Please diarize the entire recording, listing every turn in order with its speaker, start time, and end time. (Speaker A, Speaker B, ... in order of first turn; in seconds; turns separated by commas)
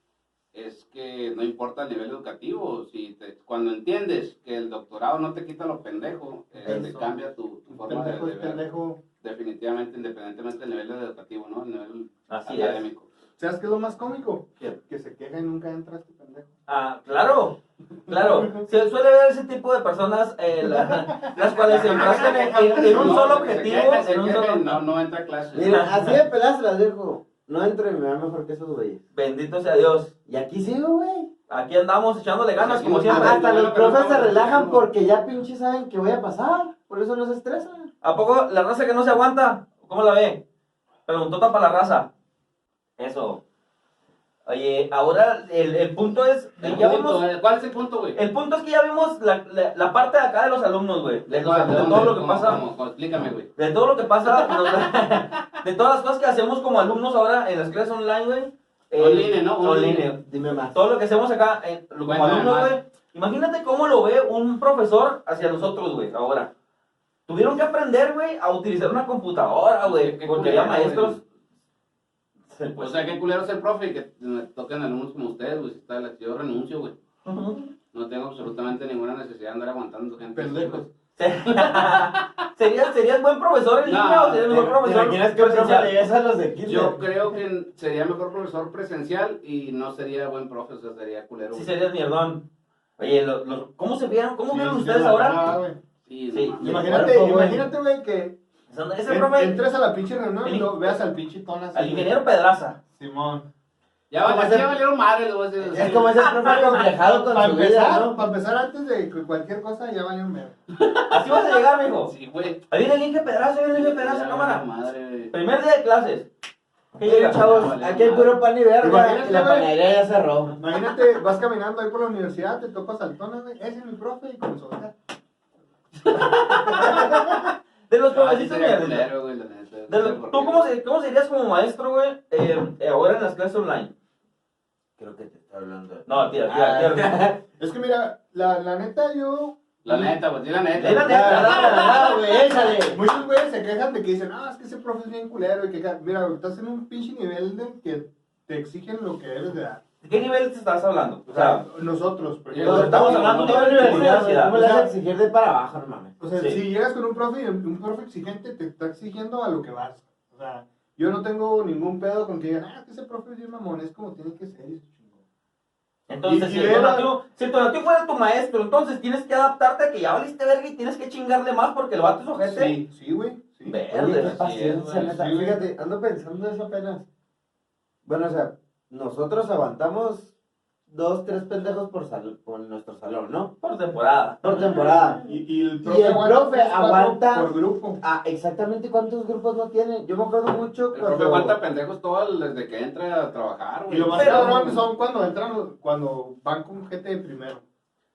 Speaker A: 0.5-8.6, Speaker B: 6.7-6.9, Speaker B: 7.7-9.0, Speaker A: 9.2-13.1, Speaker C: 12.3-12.8, Speaker B: 13.4-16.5, Speaker C: 16.7-24.8, Speaker B: 18.1-18.6, Speaker A: 21.4-25.8, Speaker B: 21.7-23.2, Speaker D: 25.5-29.0, Speaker C: 25.6-26.1, Speaker C: 29.1-30.1, Speaker D: 30.3-31.3, Speaker C: 31.5-33.4, Speaker A: 32.6-34.8, Speaker D: 33.1-37.9, Speaker C: 38.0-40.4, Speaker C: 41.1-42.1, Speaker C: 43.0-43.4, Speaker C: 44.5-47.2, Speaker A: 46.6-48.2, Speaker C: 48.1-52.6, Speaker A: 51.3-53.5, Speaker C: 53.6-66.5, Speaker A: 54.3-55.2, Speaker A: 59.0-60.1, Speaker D: 60.2-60.8, Speaker A: 62.0-62.8, Speaker C: 67.3-71.2, Speaker A: 69.8-71.2, Speaker C: 72.5-73.2, Speaker A: 72.8-77.0, Speaker C: 77.2-77.7, Speaker A: 77.9-80.8, Speaker B: 80.3-80.9, Speaker C: 81.2-85.9, Speaker A: 81.5-82.3, Speaker A: 83.8-84.5, Speaker D: 84.5-87.0, Speaker A: 86.7-91.7, Speaker C: 91.5-92.5, Speaker C: 93.0-95.6, Speaker B: 94.5-95.8, Speaker A: 96.0-97.1, Speaker C: 96.3-97.7, Speaker B: 96.6-98.4, Speaker C: 98.7-99.6, Speaker B: 99.1-102.2, Speaker C: 100.4-100.9, Speaker C: 101.7-102.8, Speaker B: 102.9-103.5, Speaker A: 104.1-106.2, Speaker B: 104.2-104.6, Speaker D: 105.6-108.2, Speaker C: 106.5-106.7, Speaker B: 106.6-110.6, Speaker C: 111.1-112.1, Speaker A: 112.0-112.6, Speaker C: 112.7-114.7, Speaker A: 113.7-115.3, Speaker C: 115.3-116.3, Speaker C: 117.0-118.3, Speaker D: 117.0-120.6, Speaker A: 117.4-118.2, Speaker B: 118.8-119.7, Speaker B: 120.6-124.9, Speaker B: 126.0-127.3, Speaker C: 126.1-129.1, Speaker A: 128.1-130.7, Speaker C: 129.9-133.9, Speaker D: 135.0-137.4, Speaker C: 136.1-137.2, Speaker B: 137.6-140.2, Speaker A: 139.8-142.0, Speaker C: 140.8-142.2, Speaker D: 141.1-143.0, Speaker B: 142.9-149.8, Speaker C: 150.0-151.7, Speaker B: 151.3-154.9, Speaker A: 152.5-153.8, Speaker C: 152.6-154.6, Speaker D: 152.6-156.2, Speaker B: 156.2-165.2, Speaker C: 156.4-156.6, Speaker C: 166.1-172.8, Speaker B: 166.2-167.1, Speaker B: 172.4-173.8, Speaker C: 173.7-174.4, Speaker D: 173.9-177.1, Speaker A: 174.1-175.2, Speaker B: 175.0-175.6, Speaker D: 178.1-180.3, Speaker D: 180.9-183.5, Speaker C: 183.6-184.7, Speaker D: 184.4-185.2, Speaker B: 185.2-188.0, Speaker D: 185.8-191.6, Speaker A: 190.9-194.8, Speaker B: 193.9-197.6, Speaker C: 194.2-194.7